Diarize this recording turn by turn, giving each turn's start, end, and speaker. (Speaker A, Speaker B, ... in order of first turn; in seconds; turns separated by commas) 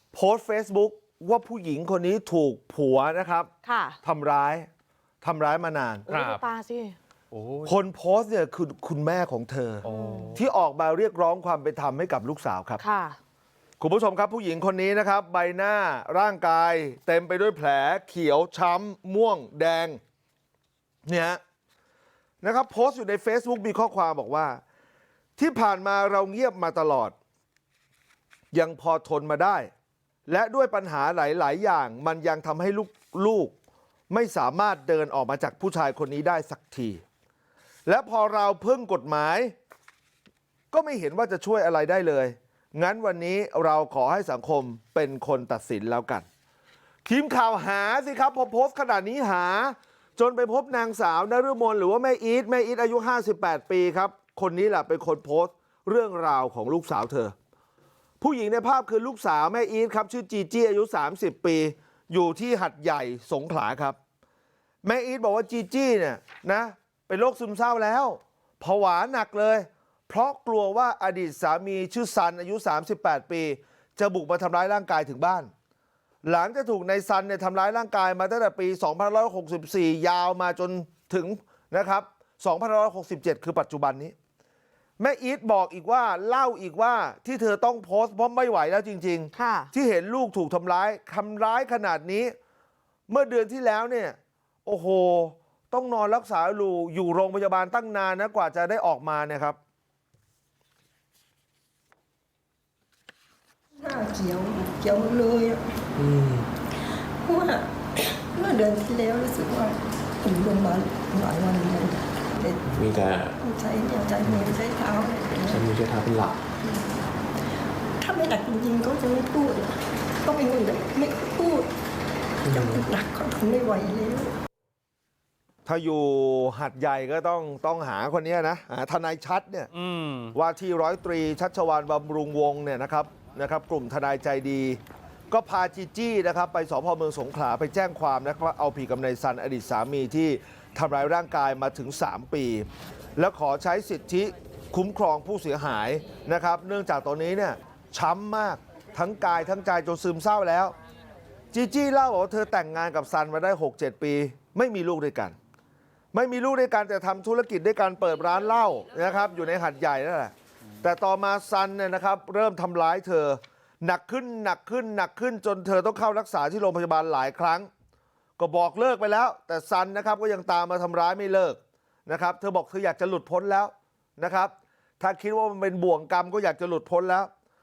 Speaker A: 0.1-3.5, Speaker B: 3.6-4.0, Speaker A: 4.0-4.7, Speaker A: 5.2-6.1, Speaker B: 6.1-6.9, Speaker C: 6.1-6.4, Speaker C: 7.3-7.8, Speaker A: 7.7-12.8, Speaker B: 9.8-10.4, Speaker C: 9.8-10.4, Speaker B: 12.8-13.2, Speaker A: 13.8-20.0, Speaker A: 21.1-21.4, Speaker A: 22.4-24.6, Speaker A: 25.4-27.1, Speaker A: 28.5-29.7, Speaker A: 30.3-33.5, Speaker A: 34.1-37.0, Speaker A: 37.9-39.5, Speaker A: 40.7-46.3, Speaker A: 47.0-57.3, Speaker A: 58.2-64.0, Speaker A: 64.8-75.5, Speaker A: 76.2-84.1, Speaker A: 85.0-92.3, Speaker B: 89.3-89.7, Speaker A: 93.1-99.6, Speaker D: 103.8-105.8, Speaker E: 106.0-106.5, Speaker D: 107.2-112.9, Speaker E: 112.7-113.4, Speaker D: 113.4-115.6, Speaker E: 115.5-116.4, Speaker D: 116.6-116.9, Speaker D: 118.0-121.7, Speaker E: 122.5-122.9, Speaker D: 122.5-124.3, Speaker A: 125.7-129.7, Speaker C: 129.7-130.3, Speaker A: 130.3-134.8, Speaker A: 135.3-150.7, Speaker A: 151.5-155.3, Speaker A: 156.1-167.7, Speaker A: 168.4-177.3